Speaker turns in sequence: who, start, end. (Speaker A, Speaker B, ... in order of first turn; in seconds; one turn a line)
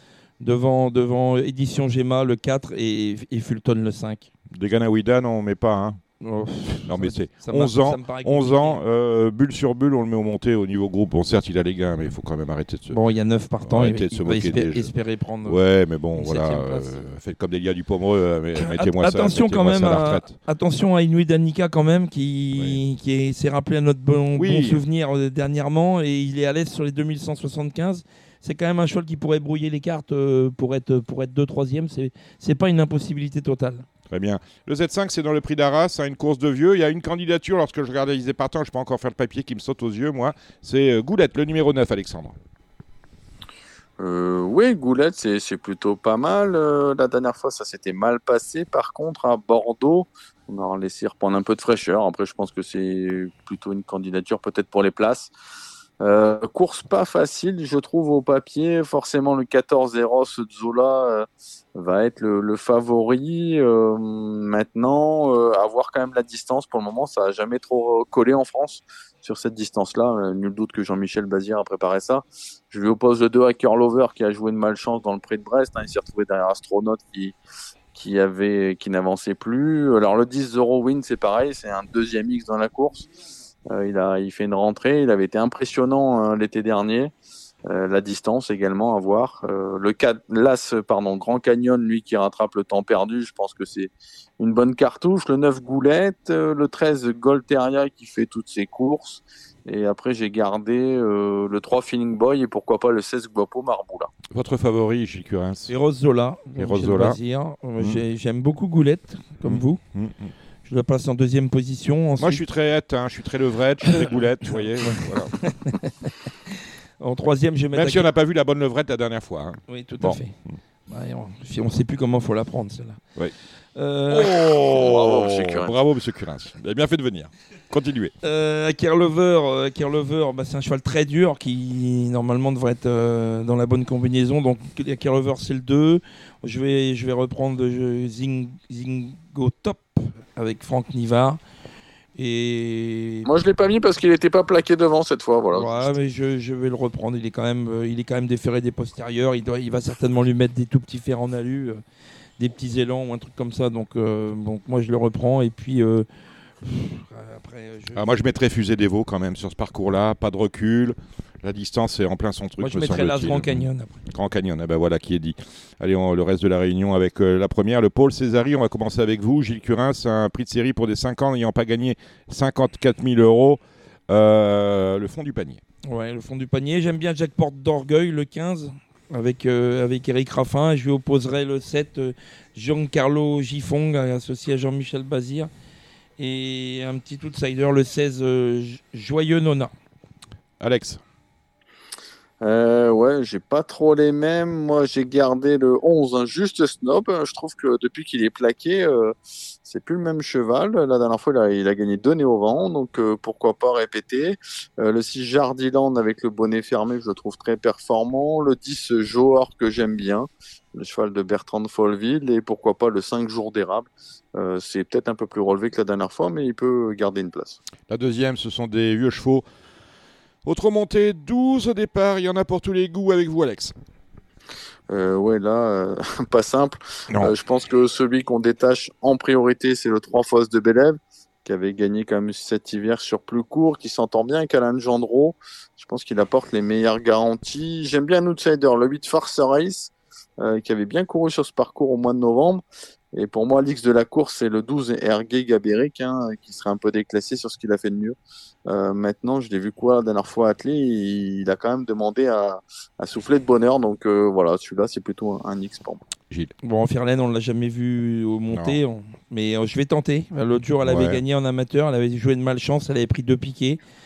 Speaker A: 0.4-4.3
Speaker B: 4.5-6.0
Speaker A: 6.2-8.8
Speaker B: 6.8-13.0
Speaker A: 12.9-15.6
Speaker B: 13.6-14.9
Speaker B: 15.4-20.3
Speaker A: 16.1-16.9
Speaker A: 18.6-33.9
Speaker B: 24.3-24.8
Speaker B: 34.1-42.4
Speaker C: 44.0-55.3
Speaker C: 56.0-77.3
Speaker C: 77.9-83.0
Speaker C: 83.7-87.1
Speaker C: 87.7-104.1
Speaker B: 104.3-105.7
Speaker A: 105.7-109.8
Speaker B: 106.6-107.2
Speaker B: 109.4-110.3
Speaker A: 110.7-112.4
Speaker B: 112.2-115.3
Speaker A: 113.9-114.2
Speaker A: 114.8-116.1
Speaker A: 117.0-118.0
Speaker B: 117.7-120.5
Speaker A: 119.7-120.3
Speaker A: 120.9-123.0
Speaker A: 123.8-124.6
Speaker B: 124.1-128.1
Speaker C: 124.7-125.7
Speaker A: 128.2-141.4
Speaker A: 142.2-143.3
Speaker C: 143.2-145.9
Speaker A: 145.5-151.8
Speaker A: 152.4-156.1
Speaker A: 156.6-158.1
Speaker B: 157.9-175.6
Speaker A: 162.6-164.0
Speaker A: 175.8-185.5
Speaker A: 186.2-189.7
Speaker B: 190.6-191.0
Speaker C: 192.4-199.1
Speaker C: 199.7-217.6
Speaker B: 217.9-219.4
Speaker B: 220.4-223.7
Speaker C: 224.9-242.6
Speaker C: 243.1-248.2
Speaker C: 248.7-256.0
Speaker A: 256.6-263.8
Speaker B: 258.5-258.8
Speaker B: 260.8-261.2